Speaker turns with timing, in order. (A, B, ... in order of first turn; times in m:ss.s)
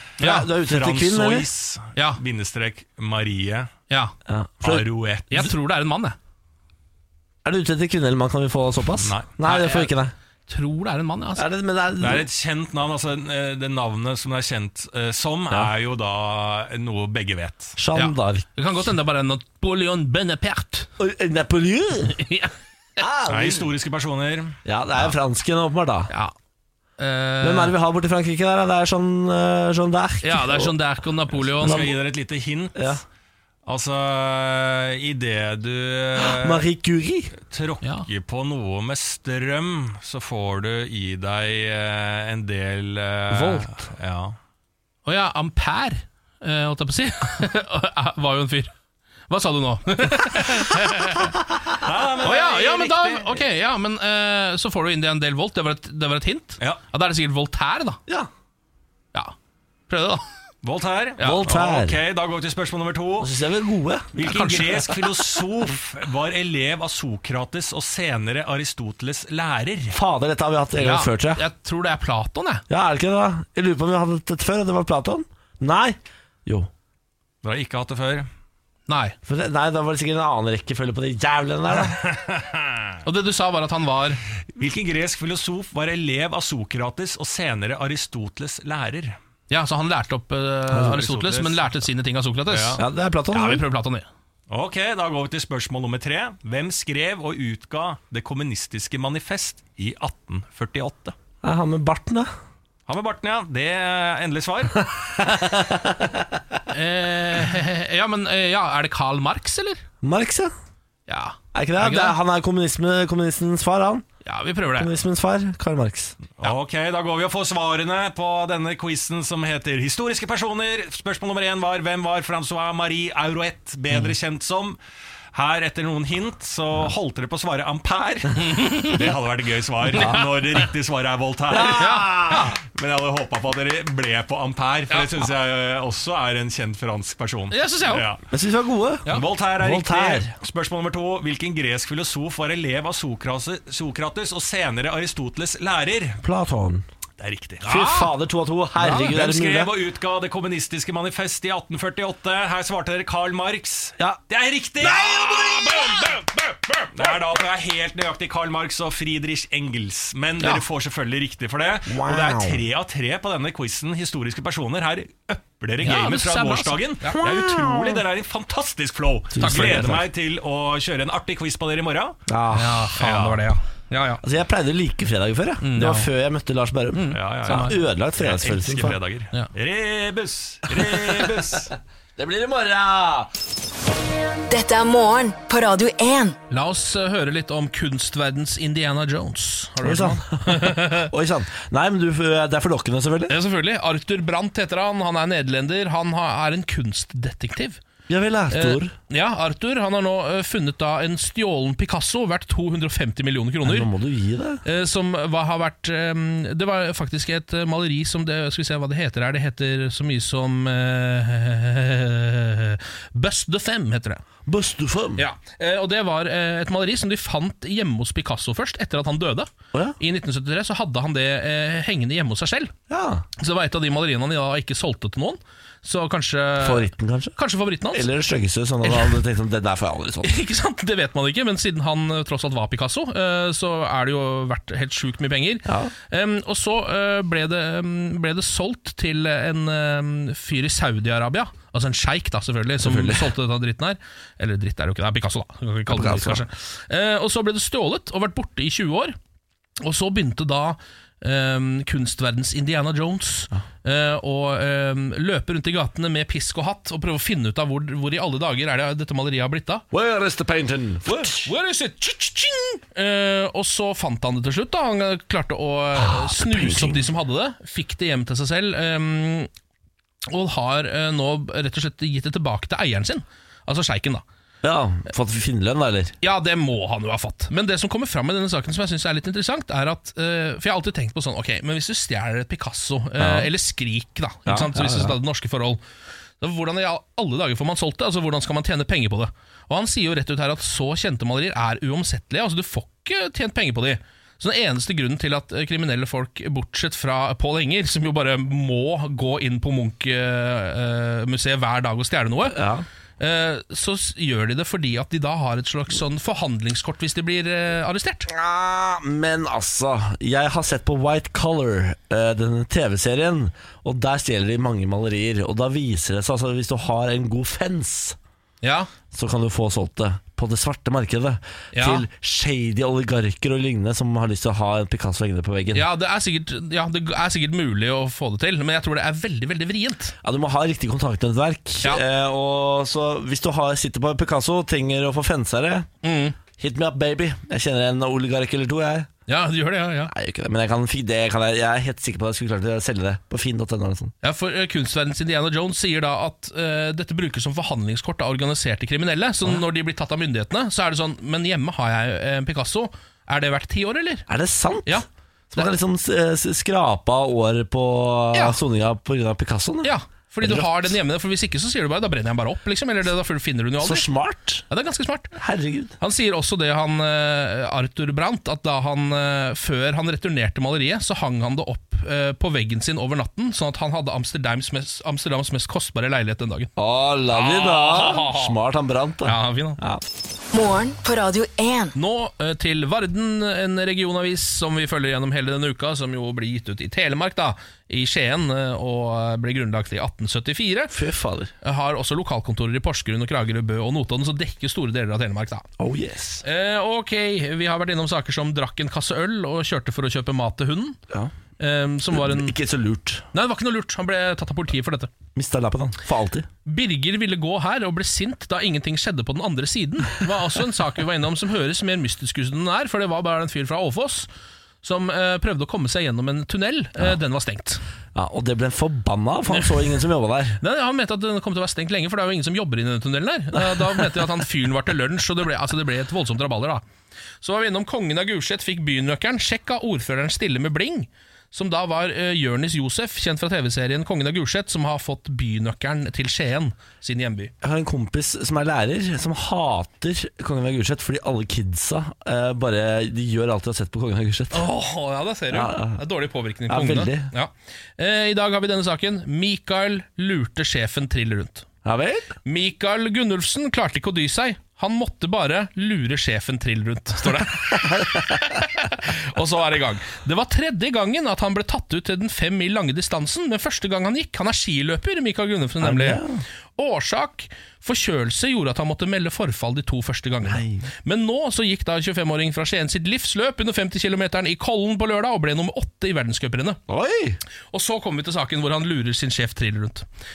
0:00.2-0:01.5 A
0:00.2-0:00.5 B
0:00.5-0:03.7 C
0:01.9-0:02.2 B
0:03.9-0:04.1 B
0:04.2-0:04.8 A
0:04.6-0:05.5 C
0:05.3-0:06.2 B
0:07.4-0:10.1 A
0:09.0-0:09.3 C
0:09.4-0:09.9 B
0:10.5-0:11.4 B
0:11.4-0:12.3 A
0:12.0-0:17.7 C
0:17.8-0:18.4 A
0:17.9-0:20.9 B
0:21.0-0:22.2 A
0:22.0-0:22.5 B
0:23.0-0:23.7 A
0:23.3-0:24.6 C
0:24.6-0:26.1 A
0:27.0-0:27.7 B
0:27.4-0:30.7 A
0:30.2-0:31.9 B
0:31.4-0:33.0 C
0:31.6-0:32.0 A
0:32.7-0:33.0 A
0:33.6-0:36.6 C
0:36.2-0:37.3 A
0:37.4-0:44.4 C
0:37.8-0:38.1 B
0:43.3-0:43.9 A
0:45.0-0:48.7 B
0:49.3-0:51.4 B
0:51.8-0:53.4 C
0:52.2-0:58.0 B
0:59.9-1:00.2 B
1:00.6-1:03.3 C
1:01.2-1:02.0 A
1:03.2-1:04.2 A
1:04.1-1:10.0 C
1:04.2-1:05.2 B
1:09.9-1:11.4 A
1:10.8-1:12.6 B
1:12.7-1:16.7 A
1:17.4-1:18.3 C
1:18.9-1:19.2 B
1:19.2-1:22.0 A
1:21.9-1:23.0 C
1:23.0-1:24.2 B
1:24.5-1:29.2 C
1:29.5-1:34.1 B
1:30.8-1:31.6 C
1:32.5-1:32.8 C
1:32.8-1:33.6 A
1:34.5-1:41.2 C
1:41.4-1:42.3 A
1:42.9-1:44.8 C
1:45.2-1:46.2 A
1:46.7-1:49.8 B
1:50.0-1:50.5 A
1:51.1-1:52.2 B
1:51.5-1:54.0 A
1:54.2-1:54.9 B
1:54.8-1:56.2 A
1:56.4-2:04.8 C
2:05.3-2:18.2 C
2:08.5-2:09.1 B
2:09.9-2:10.5 B
2:11.5-2:12.5 A
2:11.7-2:12.5 B
2:14.9-2:15.2 B
2:17.5-2:18.1 B
2:18.3-2:19.1 A
2:19.1-2:26.2 C
2:19.6-2:20.3 A
2:26.2-2:26.8 A
2:27.2-2:27.6 C
2:27.6-2:29.7 A
2:27.6-2:28.1 B
2:28.8-2:35.2 C
2:28.8-2:29.1 B
2:34.8-2:36.0 A
2:34.8-2:37.2 B
2:36.9-2:52.2 C
2:41.9-2:42.6 A
2:45.8-2:47.2 B
2:47.1-2:48.0 A
2:49.3-2:50.0 A
2:49.4-2:50.0 B
2:52.3-2:52.9 A
2:52.5-2:54.2 B
2:52.9-2:53.4 C
2:54.2-2:59.0 A
2:55.6-2:56.1 B
2:56.9-2:57.8 B
2:57.1-3:01.7 C
3:00.8-3:01.2 A
3:02.2-3:03.3 A
3:04.5-3:06.4 D
3:06.5-3:11.1 B
3:09.8-3:13.4 A
3:13.3-3:17.8 B
3:18.1-3:18.9 A
3:18.5-3:23.9 B
3:23.6-3:24.6 A
3:24.6-3:34.2 B
3:34.4-3:35.2 A
3:35.2-3:42.7 B
3:42.9-3:43.2 A
3:43.4-3:48.1 B
3:46.6-3:47.4 A
3:47.9-3:50.3 A
3:48.8-3:49.2 B
3:50.2-4:09.2 B
3:55.6-3:55.9 A
4:02.8-4:03.2 A
4:05.9-4:06.4 A
4:09.8-4:19.8 B
4:19.9-4:21.5 A
4:21.1-4:29.5 B
4:26.0-4:27.0 A
4:30.3-4:34.2 B
4:34.6-4:36.1 A
4:36.2-4:45.8 B
4:43.2-4:43.5 A
4:44.4-4:45.2 A
4:46.4-5:02.6 B
5:02.4-5:02.8 A
5:03.2-5:08.3 B
5:08.3-5:18.2 A
5:18.6-5:18.9 B
5:19.1-5:25.8 A
5:21.7-5:22.1 B
5:25.7-5:30.1 B
5:30.2-5:35.9 A
5:36.0-5:36.4 B
5:36.6-5:39.1 A
5:39.3-5:40.1 B
5:40.1-5:44.1 A
5:44.2-5:54.3 B
5:54.3-6:00.9 A
5:54.8-5:55.7 B
5:58.3-5:58.6 B
5:59.8-6:04.1 B
6:03.8-6:04.6 A
6:04.7-6:05.3 B
6:05.3-6:06.0 A
6:06.0-6:16.7 B
6:16.8-6:20.0 A
6:17.3-6:18.5 B
6:19.2-6:19.8 B
6:20.5-6:21.9 D
6:22.0-6:30.9 B
6:30.9-6:31.5 A
6:31.6-6:35.7 B
6:35.8-6:36.4 A
6:36.4-6:41.0 B
6:41.6-6:42.5 B
6:42.1-6:43.2 A
6:43.3-6:45.1 B
6:45.3-6:46.5 A
6:46.6-6:54.3 B
6:54.8-6:57.8 B
6:58.1-7:00.6 A
7:00.6-7:06.8 B
7:03.5-7:04.2 A
7:07.4-7:17.5 B
7:17.6-7:24.7 A
7:24.5-7:31.7 B
7:25.5-7:26.0 A
7:26.7-7:27.3 A
7:31.8-7:32.3 A
7:32.4-7:46.2 B
7:37.7-7:38.4 A
7:45.8-7:46.4 A
7:46.8-7:56.8 B
7:50.5-7:50.8 A
7:56.9-7:57.4 A
7:57.7-8:00.0 B